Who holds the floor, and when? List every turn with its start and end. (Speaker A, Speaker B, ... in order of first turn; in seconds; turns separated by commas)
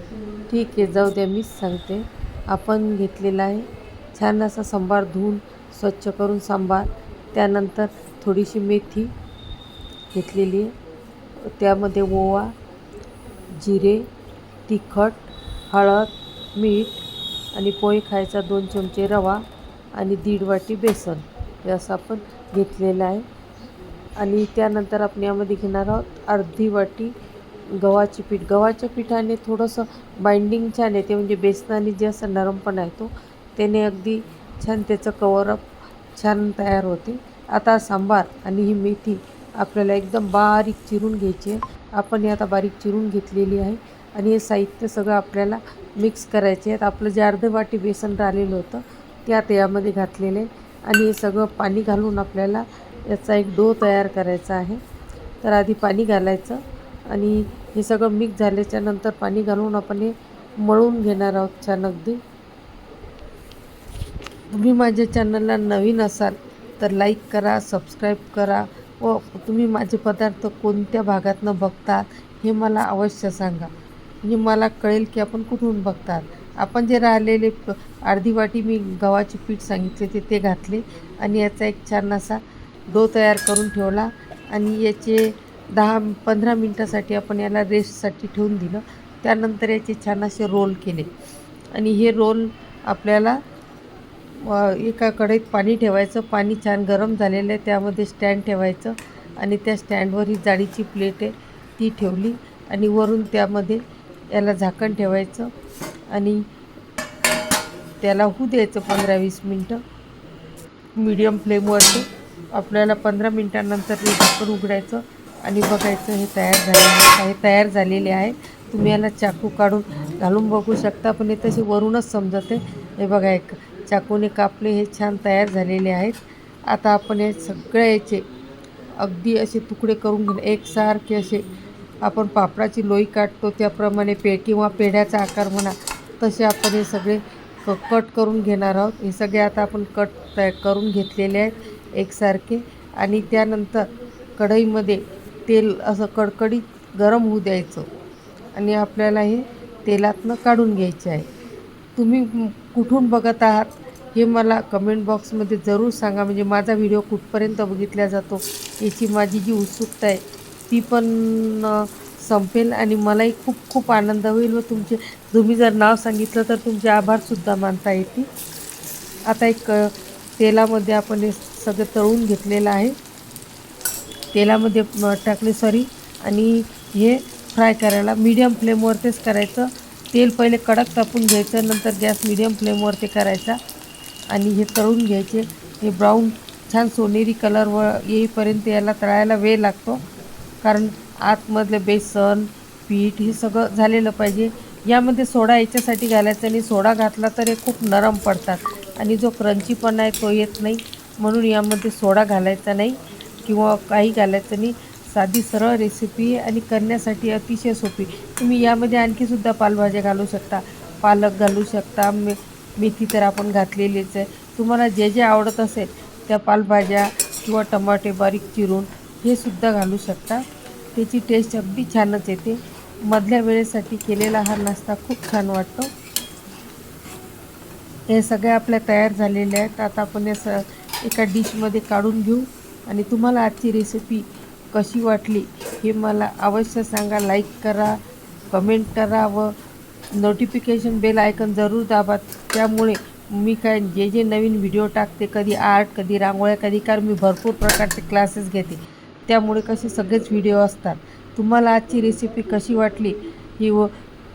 Speaker A: 0.5-9.1, Speaker A: 10.1-10.7, Speaker A: 11.4-12.5, Speaker A: 13.6-14.1, Speaker A: 14.7-19.4, Speaker A: 19.9-23.2, Speaker A: 24.2-27.1, Speaker A: 27.8-54.8, Speaker A: 55.4-62.2, Speaker A: 64.5-73.7, Speaker A: 74.2-91.1, Speaker A: 91.7-93.4, Speaker A: 94.4-103.8, Speaker A: 104.3-105.5, Speaker A: 106.1-106.4, Speaker A: 108.0-109.8, Speaker A: 111.0-128.3, Speaker A: 129.0-131.5, Speaker A: 132.0-147.9, Speaker A: 148.5-151.2, Speaker A: 152.0-168.3, Speaker A: 169.3-172.9, Speaker A: 174.3-183.6, Speaker A: 184.3-190.0, Speaker A: 190.6-220.4, Speaker A: 220.9-225.9, Speaker A: 228.1-238.0, Speaker A: 238.5-239.5, Speaker A: 240.1-253.9